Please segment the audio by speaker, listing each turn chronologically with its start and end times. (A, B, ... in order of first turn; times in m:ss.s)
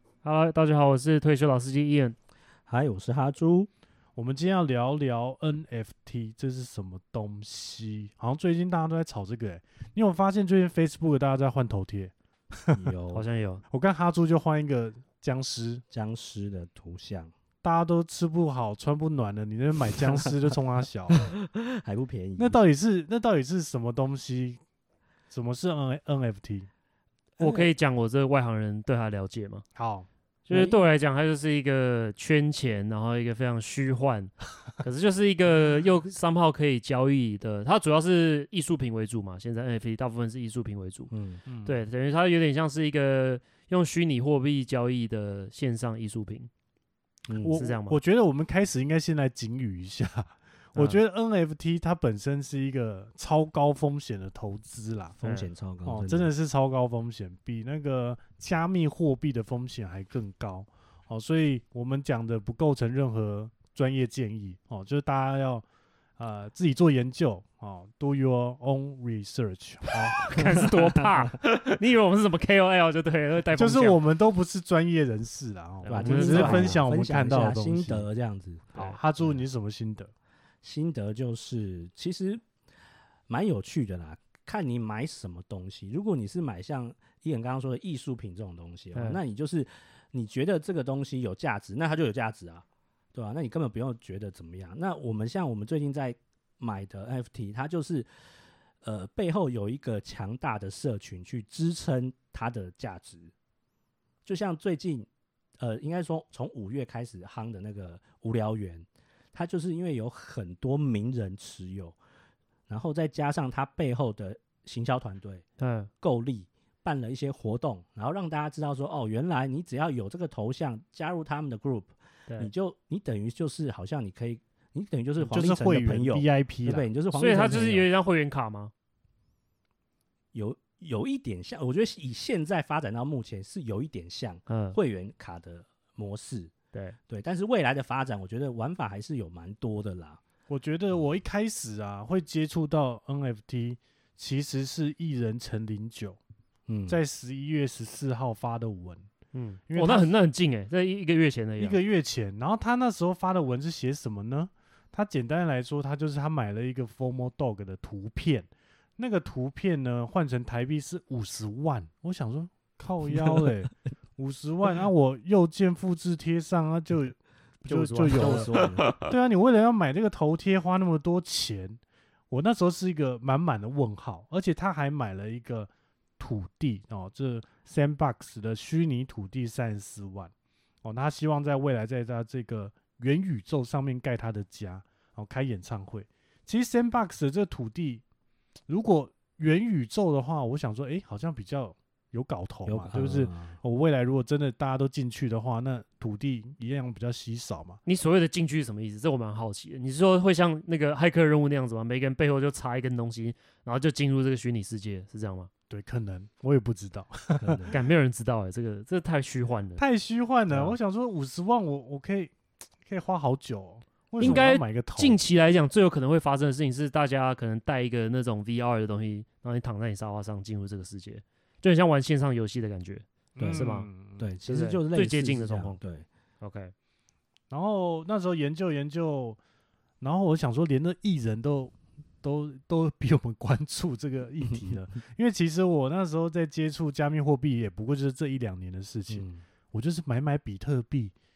0:00.2-0:02.2 A
0:02.7-0:03.7 B
0:04.1-0:12.8 C
0:12.7-0:13.2 B
0:13.1-0:13.6 A
0:13.7-0:15.8 C
0:15.9-0:17.3 B
0:17.6-0:21.3 C
0:21.1-0:22.6 B
0:22.4-0:24.6 C
0:25.3-0:26.7 C
0:27.4-0:29.6 A
0:29.7-0:30.1 C
0:30.5-0:41.1 A
0:30.5-0:30.8 B
0:41.1-0:41.4 B
0:41.5-0:41.8 C
0:41.6-0:46.5 A
0:47.3-0:47.6 B
0:47.4-0:55.2 C
0:47.5-0:48.0 A
0:50.7-0:51.0 A
0:55.2-0:56.3 B
0:55.2-0:55.5 A
0:55.8-1:05.6 C
1:06.2-1:10.6 C
1:10.2-1:14.0 A
1:13.5-1:18.1 C
1:15.8-1:16.8 A
1:15.9-1:19.4 B
1:18.7-1:20.1 C
1:20.6-1:22.4 B
1:23.3-1:38.1 B
1:28.9-1:29.2 A
1:38.8-1:43.3 B
1:44.2-1:45.1 B
1:45.6-1:52.0 B
1:52.7-1:55.4 B
1:55.6-1:55.9 A
1:56.0-2:07.8 B
2:05.2-2:06.8 C
2:07.1-2:08.7 A
2:10.3-2:16.5 B
2:14.5-2:14.8 A
2:17.1-2:20.2 B
2:20.5-2:26.2 C
2:26.7-2:27.0 B
2:26.9-2:29.1 C
2:29.3-2:31.8 A
2:29.7-2:30.1 C
2:31.6-3:00.3 C
2:47.7-2:48.8 A
2:48.1-2:49.0 B
3:00.8-3:08.0 C
3:08.7-3:17.8 C
3:12.6-3:13.6 B
3:17.8-3:25.5 A
3:25.7-3:27.6 C
3:27.4-3:27.8 B
3:27.7-3:29.8 A
3:29.8-3:32.3 C
3:30.5-3:30.8 A
3:32.8-3:35.2 C
3:34.2-3:43.9 A
3:43.4-3:44.2 C
3:43.4-3:46.0 B
3:44.4-3:45.8 A
3:46.4-3:46.7 A
3:47.5-3:49.4 C
3:50.0-4:01.1 C
3:54.5-3:54.7 B
3:59.1-3:59.4 B